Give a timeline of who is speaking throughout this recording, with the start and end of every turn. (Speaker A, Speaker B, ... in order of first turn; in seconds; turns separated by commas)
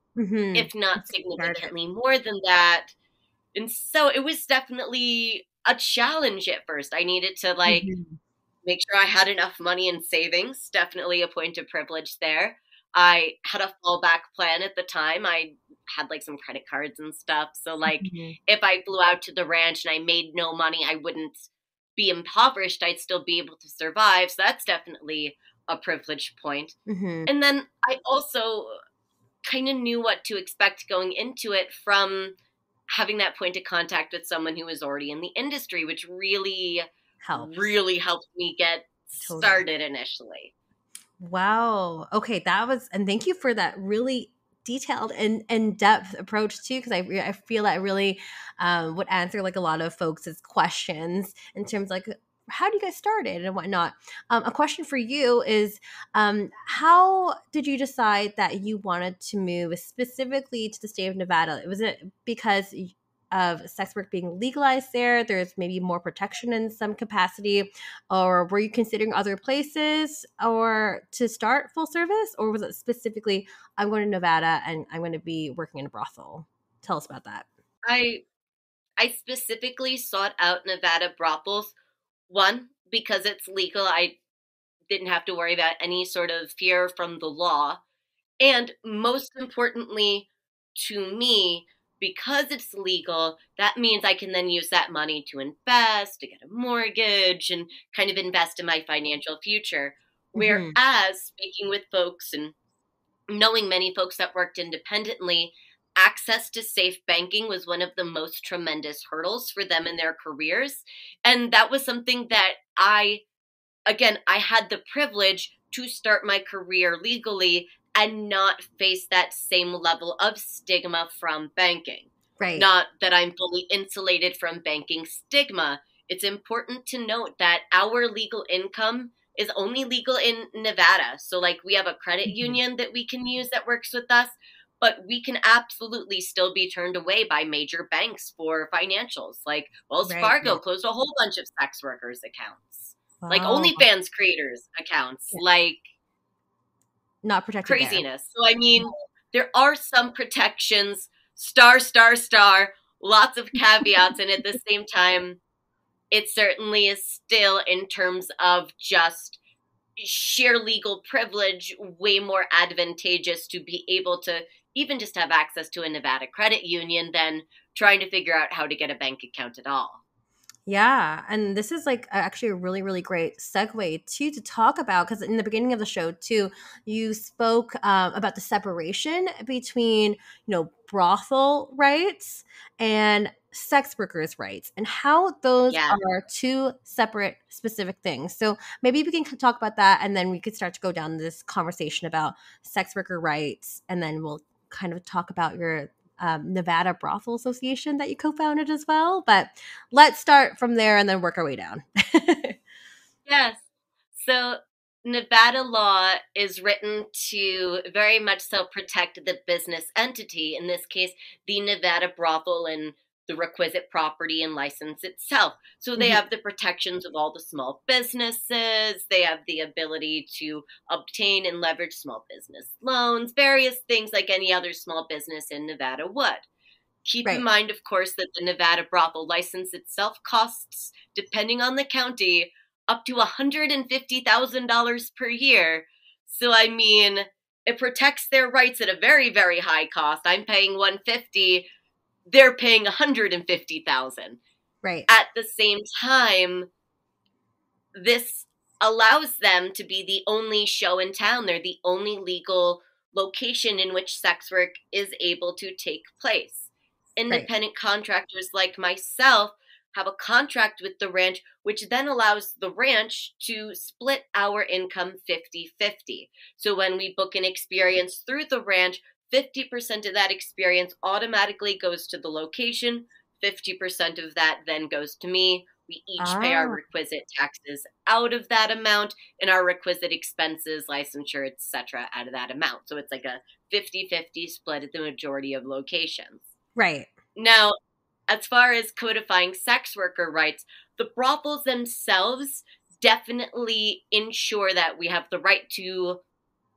Speaker A: 0.1-1.7, Speaker B: 0.5-2.9, Speaker B: 3.5-7.9, Speaker A: 7.7-8.2, Speaker B: 8.6-26.8, Speaker A: 17.9-18.3, Speaker A: 26.9-27.3, Speaker B: 27.3-28.8, Speaker B: 29.4-32.3, Speaker B: 32.9-40.5, Speaker A: 37.2-37.8, Speaker A: 39.2-39.6, Speaker A: 41.2-77.5, Speaker B: 77.8-78.2, Speaker B: 79.0-81.7, Speaker B: 82.3-84.2, Speaker B: 84.9-87.8, Speaker B: 88.4-102.5, Speaker A: 100.3-100.7, Speaker B: 103.3-113.2, Speaker B: 113.9-145.8, Speaker A: 122.4-122.7, Speaker A: 132.3-132.6, Speaker A: 140.0-140.6, Speaker A: 143.2-143.8, Speaker A: 147.2-148.0, Speaker B: 147.7-155.4, Speaker B: 156.1-159.4, Speaker B: 160.0-170.0, Speaker A: 170.7-202.6, Speaker B: 185.7-186.0, Speaker B: 203.2-226.4, Speaker A: 216.0-216.2, Speaker B: 227.0-241.7, Speaker B: 242.3-244.4, Speaker A: 244.8-245.1, Speaker B: 245.1-246.7, Speaker B: 247.9-286.5, Speaker A: 276.2-276.8, Speaker A: 286.8-287.1, Speaker B: 287.4-287.7, Speaker B: 288.3-296.2